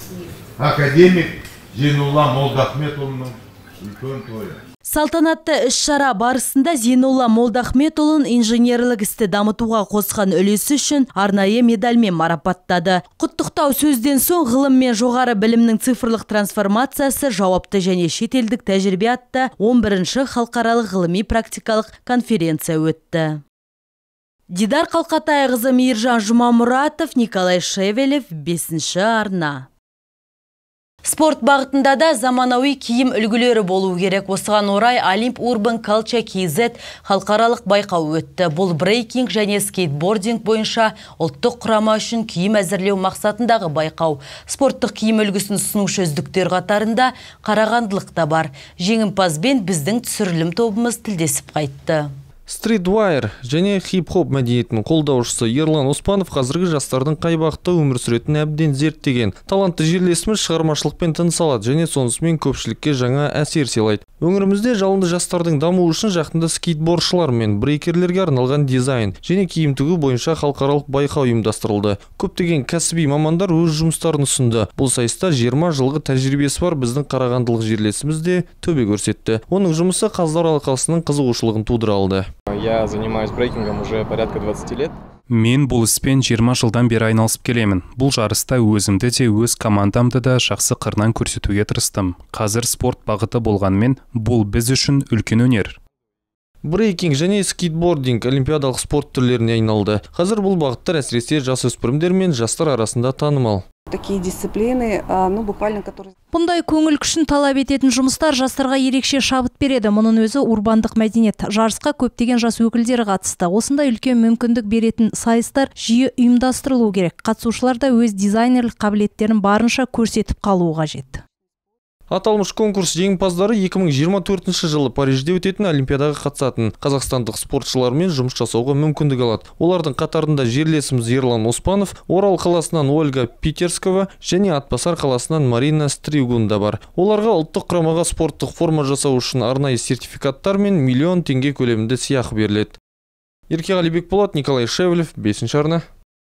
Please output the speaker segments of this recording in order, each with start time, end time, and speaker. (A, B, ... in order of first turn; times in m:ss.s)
0:00.6-0:04.6 A
0:04.8-0:23.4 B
0:24.5-0:29.7 B
0:31.0-0:52.1 B
0:52.5-1:22.3 C
1:22.5-1:25.0 D
1:25.3-1:35.8 E
1:36.6-1:43.6 C
1:43.9-1:46.1 F
1:46.3-2:01.2 G
2:02.1-2:22.8 C
2:23.5-2:25.8 C